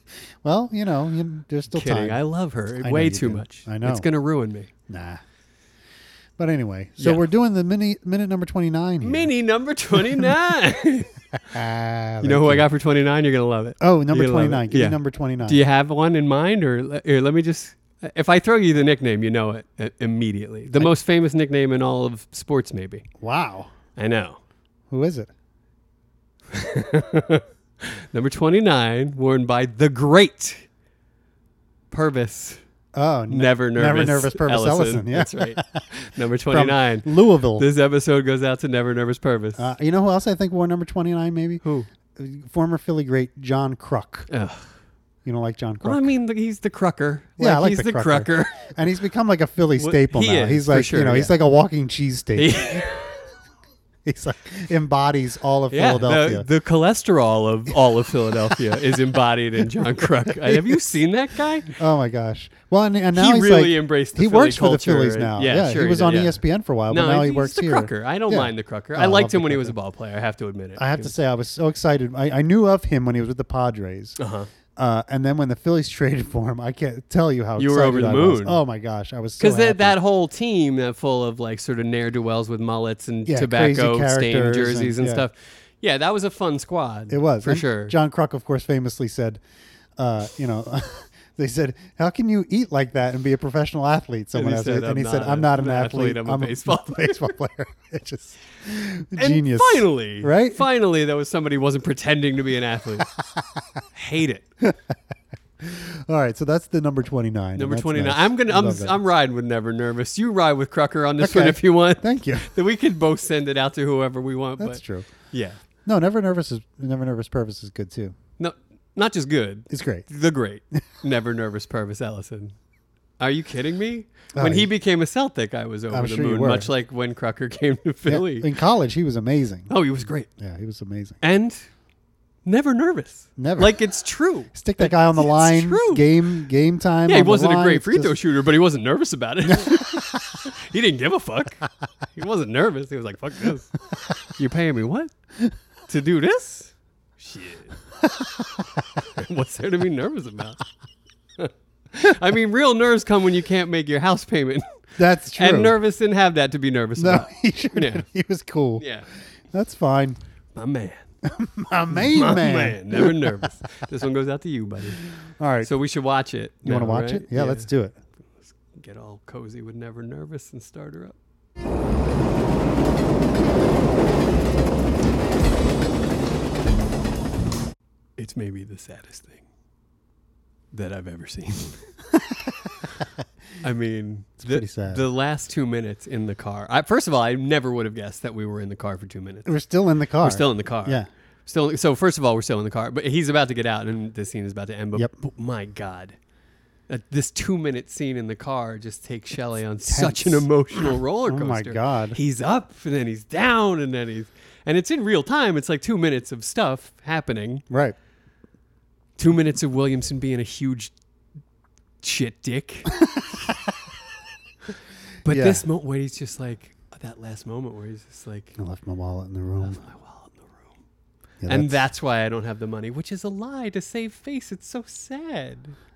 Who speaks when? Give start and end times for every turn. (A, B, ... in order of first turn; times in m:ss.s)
0:00.4-0:02.2 A
0:01.7-0:04.7 B
0:02.8-0:04.1 A
0:04.9-0:05.2 A
0:06.4-0:09.3 A
0:09.0-0:11.1 B
0:10.0-0:10.3 A
0:11.5-0:12.7 A
0:12.2-0:23.0 B
0:13.8-0:15.6 A
0:23.2-0:23.7 A
0:24.0-0:24.4 B
0:24.9-0:25.3 A
0:26.5-0:30.6 B
0:31.9-0:32.6 B
0:33.0-0:35.8 A
0:33.3-0:39.7 B
0:36.5-0:37.7 A
0:39.6-0:41.6 A
0:41.6-0:41.9 B
0:42.2-0:44.3 A
0:44.3-0:44.7 B
0:45.2-0:46.1 A
0:45.8-0:48.7 B
0:47.4-0:52.9 A
0:49.8-0:51.4 B
0:52.4-0:53.2 B
0:54.0-0:56.5 A
0:55.7-1:01.8 B
0:58.2-0:58.6 A
0:59.8-1:00.8 A
1:01.7-1:09.8 A
1:03.1-1:11.1 B
1:10.8-1:14.2 A
1:14.2-1:14.5 B
1:14.8-1:20.0 A
1:17.6-1:18.6 B
1:19.4-1:27.9 B
1:23.3-1:25.2 A
1:27.1-1:29.4 A
1:30.0-1:40.6 A
1:34.4-1:37.4 B
1:39.2-1:43.1 B
1:43.2-1:43.7 A
1:43.9-1:44.5 B
1:44.6-1:45.0 A
1:45.6-1:49.0 A
1:47.6-1:54.8 B
1:51.2-1:52.5 A
1:54.6-1:55.1 A
1:55.3-1:55.6 B
1:55.8-1:58.2 A
1:58.4-2:02.6 B
1:59.7-2:00.1 A
2:03.2-2:08.5 B
2:04.4-2:04.7 A
2:05.9-2:06.7 A
2:08.1-2:09.7 A
2:09.7-2:10.3 B
2:10.4-2:11.2 A
2:11.2-2:11.6 B
2:12.4-2:16.1 B
2:13.4-2:13.8 A
2:14.5-2:18.2 A
2:17.1-2:23.8 B
2:19.5-2:20.2 A
2:24.3-2:25.1 B
2:25.9-2:27.8 B
2:28.0-2:28.7 A
2:29.0-2:30.6 B
2:31.4-2:34.6 B
2:35.0-2:35.8 A
2:35.4-2:38.1 B
2:37.0-2:38.8 A
2:38.8-2:39.1 B
2:39.5-2:40.2 A
2:40.6-2:41.0 B
2:41.2-2:43.4 A
2:41.9-2:45.0 B
2:45.3-2:45.7 A
2:45.6-2:47.7 B
2:46.6-2:48.0 A
2:48.7-2:51.2 B
2:58.2-2:59.4 B
3:00.7-3:01.9 B
3:03.6-3:09.5 B
3:04.4-3:05.0 A
3:09.5-3:11.1 A
3:10.2-3:16.2 B
3:16.9-3:27.6 B
3:19.9-3:20.5 A
3:21.3-3:22.2 A
3:27.7-3:28.0 A
3:29.2-3:30.9 B
3:32.0-3:32.9 B
3:33.2-3:33.5 A
3:35.2-3:38.6 B
3:35.3-3:35.6 A
3:38.6-3:39.8 A
3:39.6-3:40.7 B
3:41.4-3:41.8 A
3:41.5-3:45.8 B